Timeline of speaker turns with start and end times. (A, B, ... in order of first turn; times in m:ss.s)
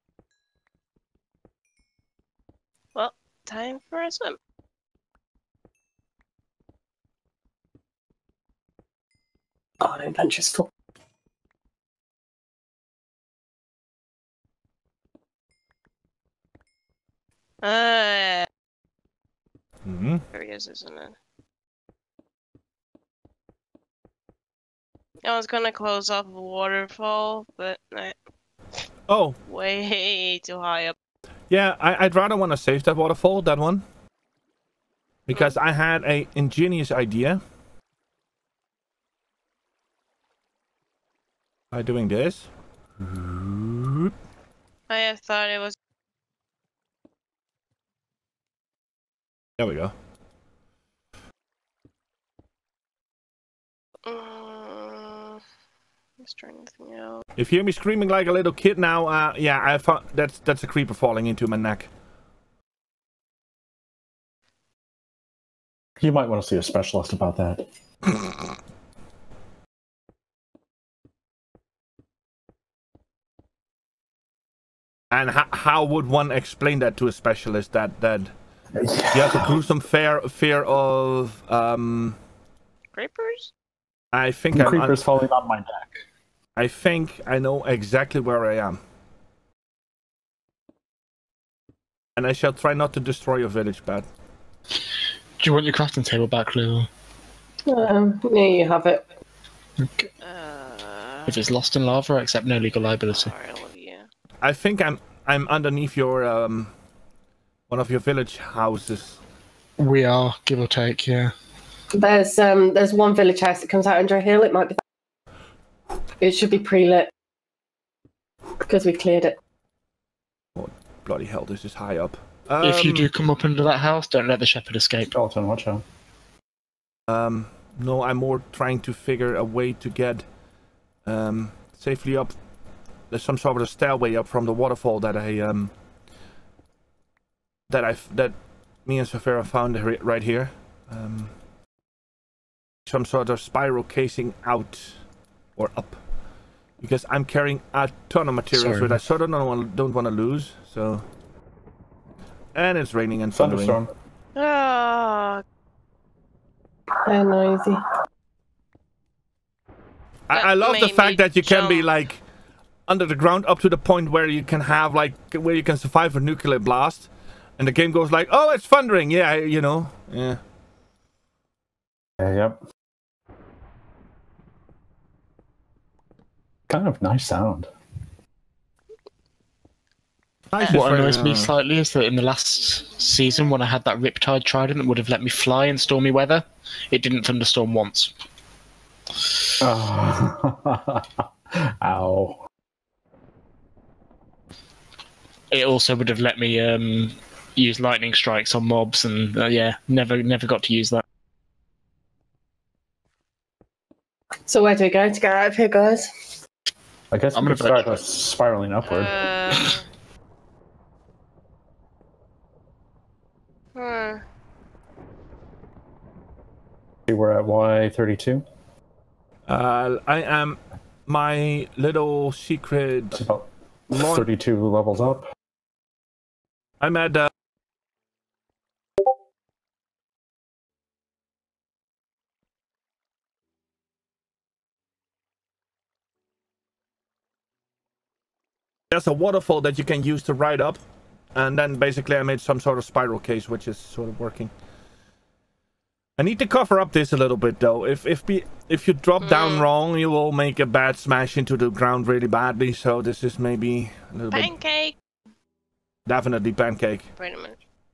0:03.0-0:04.4 A
0:09.8-0:10.7 B
0:17.6-0:18.5 A
0:19.9-0:20.2 C
0:20.3-0:21.2 A
0:25.2-0:28.2 A
0:29.1-0:29.4 C
0:29.5-0:31.0 A
0:31.5-0:33.8 C
0:35.3-0:37.4 C
0:41.7-0:42.5 C
0:43.0-0:44.1 C
0:44.9-0:45.8 A
0:49.6-0:49.9 C
0:54.1-0:55.4 A
0:56.2-0:57.2 A
0:57.4-1:01.9 C
1:06.0-1:07.7 D
1:15.1-1:18.3 C
1:18.8-1:19.6 D
1:19.1-1:22.2 C
1:22.9-1:23.5 A
1:24.1-1:25.0 C
1:24.5-1:26.0 D
1:26.6-1:28.8 C
1:32.2-1:34.1 C
1:35.4-1:36.9 E
1:37.7-1:39.0 B
1:39.8-1:40.1 E
1:40.2-1:41.5 A
1:41.3-1:43.3 E
1:43.1-1:44.1 A
1:44.4-1:46.7 C
1:47.7-1:49.2 C
1:49.8-1:51.3 E
1:52.0-1:54.8 B
1:56.2-1:57.1 B
1:58.6-1:59.4 B
2:00.6-2:03.1 C
2:02.6-2:05.1 E
2:05.1-2:05.8 D
2:07.1-2:10.2 C
2:11.0-2:12.3 C
2:13.1-2:15.7 C
2:17.7-2:18.3 C
2:18.8-2:21.3 C
2:22.9-2:25.0 C
2:25.6-2:26.0 C
2:26.8-2:31.1 C
2:28.5-2:29.0 E
2:32.6-2:33.8 C
2:33.3-2:33.9 D
2:34.4-2:35.4 A
2:37.1-2:37.8 B
2:40.3-2:42.2 C
2:40.3-2:41.9 A
2:42.9-2:50.4 C
2:52.2-2:52.6 D
2:56.7-2:57.7 D
3:00.5-3:01.5 C
3:00.7-3:08.1 E
3:09.6-3:12.4 D
3:15.5-3:21.0 E
3:24.5-3:26.1 B
3:27.1-3:29.2 D
3:27.3-3:28.0 E
3:28.8-3:29.8 A
3:33.8-3:34.2 A
3:37.1-3:38.4 D
3:39.5-3:43.3 C
3:43.2-3:45.3 D
3:43.9-3:44.2 C
3:46.8-3:47.3 C
3:58.9-4:00.8 C
4:01.4-4:04.5 C
4:06.2-4:14.5 C
4:09.2-4:09.6 A
4:14.3-4:15.0 A
4:16.1-4:17.1 C
4:17.2-4:17.6 A